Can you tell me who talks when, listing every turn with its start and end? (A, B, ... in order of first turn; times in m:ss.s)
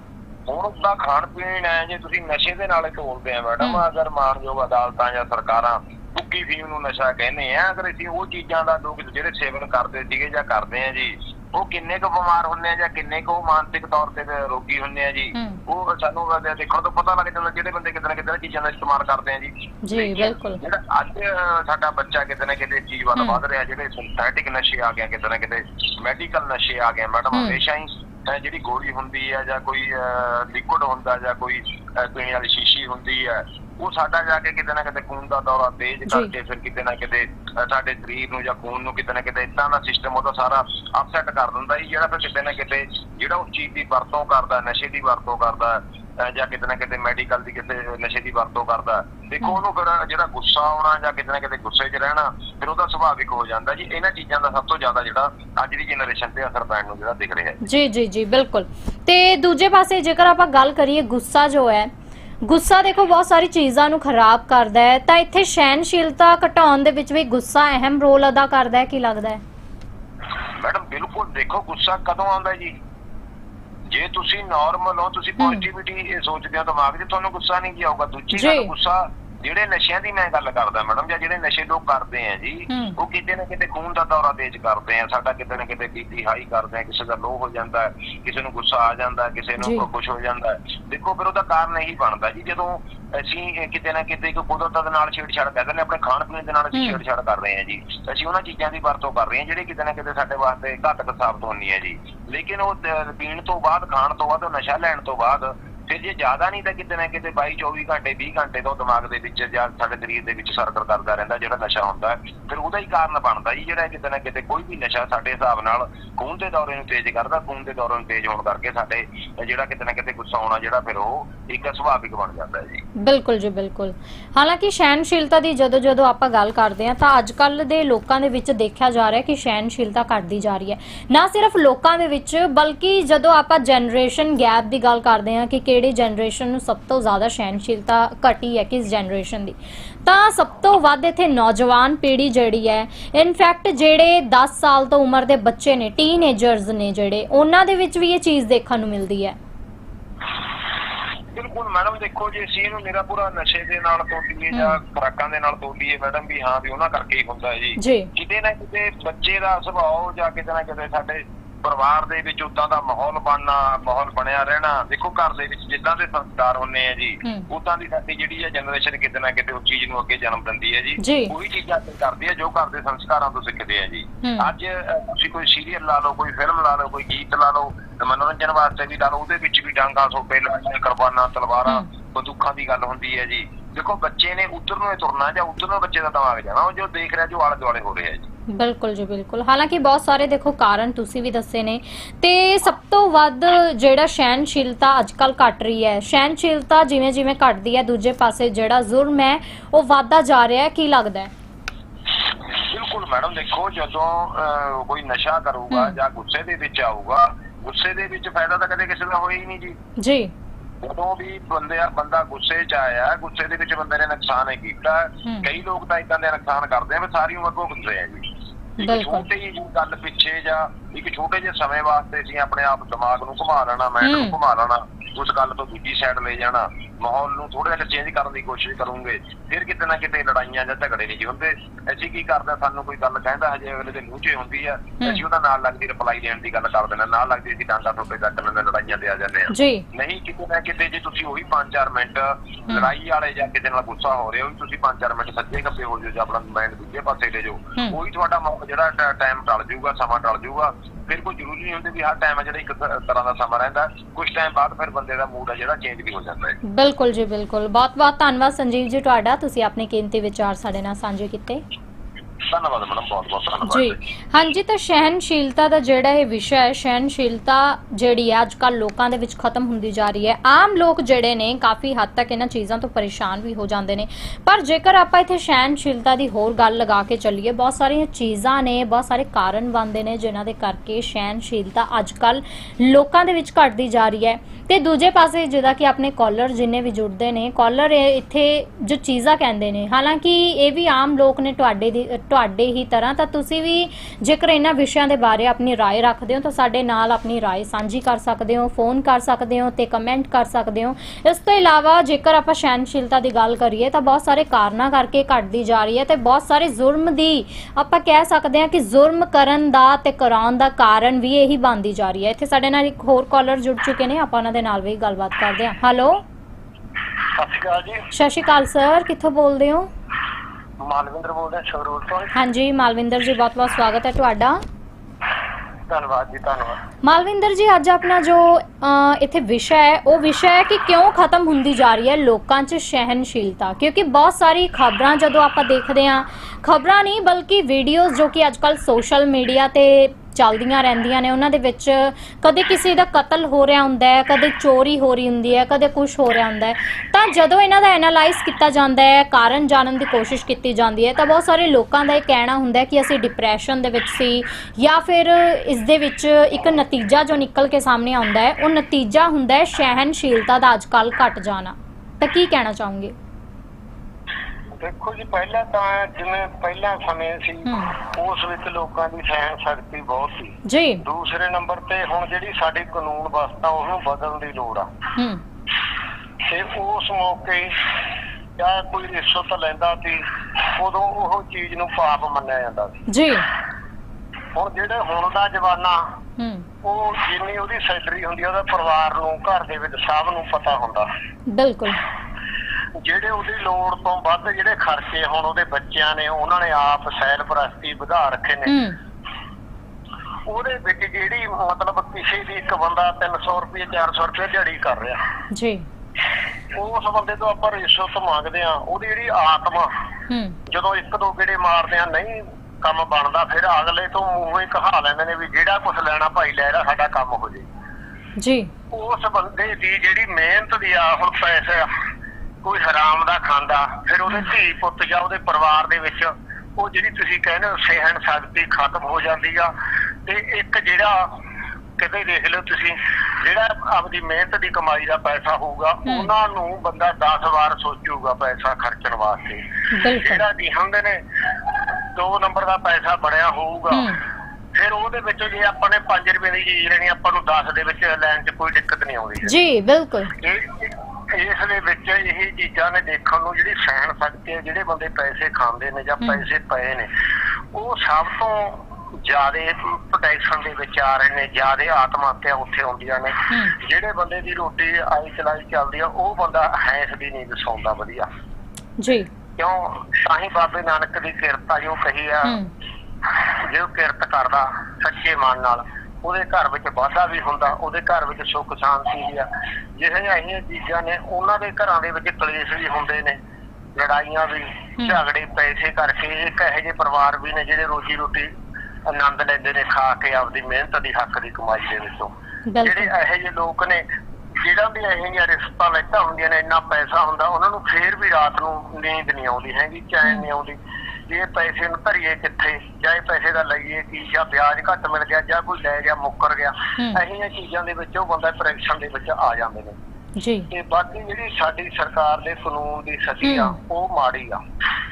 0:00.5-0:57.6 A
0:15.3-0:15.6 B
0:19.8-0:20.6 B
0:27.3-0:27.6 B
0:57.6-1:01.9 B
1:02.4-1:09.4 B
1:10.6-1:12.8 A
1:13.9-2:02.8 A
1:15.4-1:15.6 B
1:18.3-1:18.7 B
1:22.7-1:23.0 B
1:29.6-1:29.9 B
1:36.7-1:37.0 B
2:03.0-2:29.4 B
2:31.3-3:08.3 A
2:34.5-2:34.8 B
2:37.8-2:38.1 B
2:51.0-2:51.3 B
2:54.2-2:54.5 B
3:08.5-3:21.3 B
3:22.6-3:29.8 A
3:25.7-3:26.0 B
3:30.0-3:30.3 B
3:30.8-3:38.2 A
3:38.8-3:39.3 B
3:38.8-4:16.6 A
3:44.0-3:44.4 B
3:59.5-3:59.9 B
4:16.7-4:21.6 B
4:22.5-4:24.0 A
4:23.6-5:16.2 B
5:17.4-5:18.1 C
5:18.1-5:19.9 B
5:20.8-5:22.3 C
5:22.4-5:24.6 B
5:25.9-5:26.8 C
5:27.0-6:03.2 B
6:04.8-6:14.9 C
6:07.7-6:08.0 B
6:10.6-6:11.0 B
6:15.2-6:15.4 B
6:16.5-6:17.9 C
6:18.6-6:20.2 C
6:20.8-6:23.0 C
6:23.1-6:23.5 B
6:24.6-6:26.0 C
6:26.4-6:26.7 B
6:26.8-6:31.1 C
6:31.5-6:32.0 B
6:33.0-6:38.7 C
6:38.7-6:39.0 B
6:40.5-6:45.2 C
6:45.5-6:45.8 B
6:46.8-6:49.9 C
6:50.3-6:50.6 B
6:50.7-6:57.7 C
6:58.4-6:58.7 B
6:58.9-7:01.9 C
7:02.6-7:09.7 C
7:10.3-7:11.3 C
7:12.0-7:21.2 C
7:19.9-7:20.4 B
7:22.2-7:24.1 C
7:23.9-7:24.2 B
7:24.8-7:29.5 C
7:29.4-7:30.3 B
7:30.4-7:37.1 C
7:37.7-7:48.3 C
7:49.0-7:49.3 B
7:49.6-7:52.6 C
7:52.5-7:52.7 B
7:53.3-7:59.4 C
8:00.0-8:03.4 C
8:04.0-8:08.5 C
8:09.1-8:14.0 C
8:12.7-8:13.1 B
8:14.6-8:20.8 C
8:21.3-8:30.0 C
8:30.4-8:30.7 B
8:30.7-8:34.6 C
8:33.4-8:33.8 B